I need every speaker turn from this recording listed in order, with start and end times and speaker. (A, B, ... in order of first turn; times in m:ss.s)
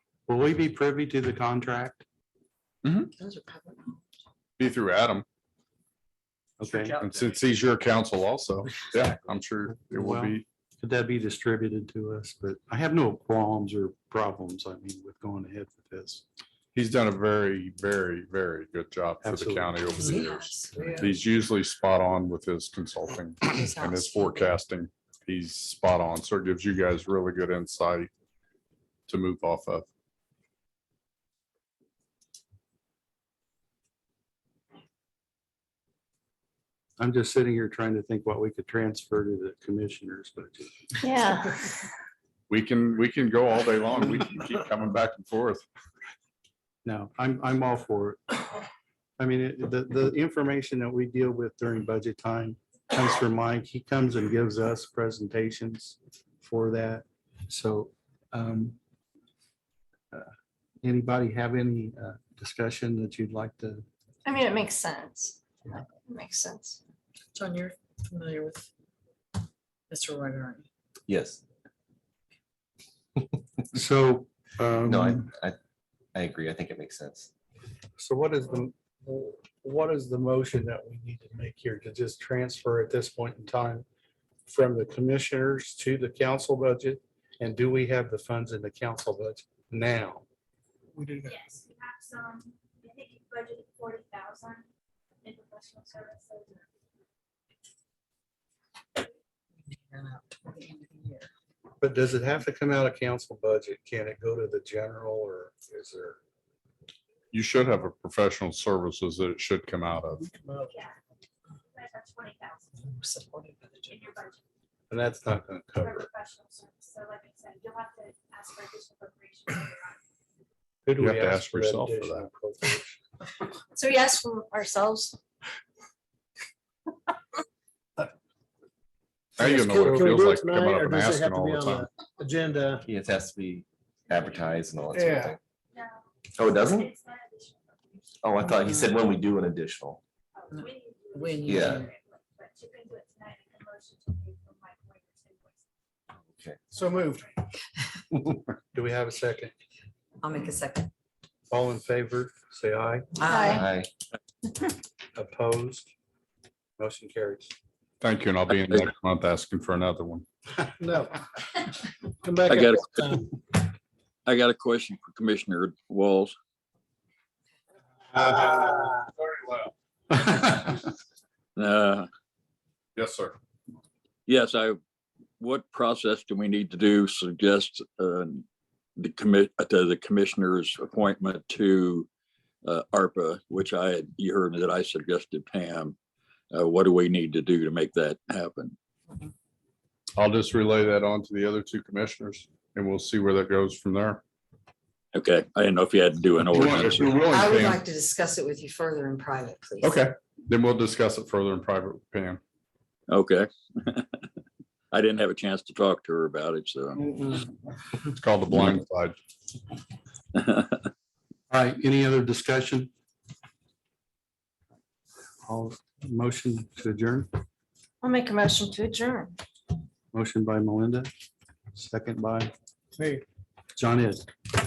0:00.3-0:02.0 A
0:02.8-0:03.1 B
0:03.1-0:04.0 C
0:04.6-0:05.2 B
0:06.6-0:07.0 A
0:06.9-0:10.4 B
0:09.7-0:16.2 A
0:16.7-0:28.1 B
0:19.2-0:20.4 A
0:20.0-0:21.2 C
0:23.4-0:24.5 C
0:29.1-0:29.9 B
0:37.0-0:40.8 A
0:41.0-0:41.7 D
0:42.5-0:45.6 B
0:46.8-0:48.4 A
0:49.2-0:58.8 A
1:00.8-1:03.8 A
1:04.2-1:06.8 D
1:07.3-1:08.7 C
1:09.9-1:10.7 C
1:11.1-1:11.4 E
1:13.7-1:15.3 A
1:14.9-1:15.6 E
1:16.1-1:17.3 E
1:18.0-1:23.8 A
1:24.4-1:30.2 A
1:31.0-1:31.3 F
1:31.2-1:34.7 G
1:35.2-1:36.6 G
1:39.7-1:41.3 C
1:41.8-1:46.2 A
1:47.3-1:50.2 B
1:50.2-1:50.7 F
1:50.7-1:51.0 G
1:51.7-1:52.9 G
1:52.8-1:54.0 C
1:53.8-1:54.4 G
1:54.9-1:56.1 A
1:55.8-2:00.0 G
2:00.8-2:03.0 A
2:01.0-2:02.3 B
2:03.7-2:05.2 D
2:09.4-2:11.8 B
2:09.4-2:12.8 F
2:12.8-2:15.4 E
2:14.9-2:15.3 F
2:15.7-2:19.1 G
2:16.3-2:16.9 E
2:18.2-2:20.0 E
2:20.3-2:25.6 G
2:20.5-2:21.9 C
2:21.5-2:21.9 E
2:26.2-2:26.6 E
2:26.7-2:27.4 G
2:28.7-2:29.5 A
2:30.2-2:30.9 C
2:31.5-2:33.1 A
2:33.2-2:33.7 C
2:33.3-2:33.6 D
2:33.5-2:33.9 E
2:35.1-2:35.9 A
2:36.8-2:37.5 A
2:38.0-2:40.2 B
2:40.8-2:41.2 F
2:42.2-2:43.3 F
2:42.5-2:43.6 H
2:44.2-2:46.3 H
2:48.1-2:49.7 B
2:51.6-2:52.1 H
2:53.0-2:53.4 B
2:54.3-2:54.8 H
2:55.4-2:58.4 H
2:59.0-3:02.1 H
3:02.6-3:05.9 H
3:06.5-3:08.7 H
3:10.2-3:14.2 B
3:15.1-3:17.2 H
3:16.4-3:17.8 B
3:17.3-3:20.0 C
3:19.8-3:22.4 B
3:23.1-3:24.1 H
3:24.9-3:27.0 H
3:28.1-3:29.2 B
3:30.4-3:30.7 H
3:31.5-3:32.9 A
3:35.4-3:37.3 A
3:38.0-3:39.4 D
3:40.1-3:41.1 A
3:41.7-3:42.5 A
3:43.0-3:43.2 F
3:43.8-3:44.3 A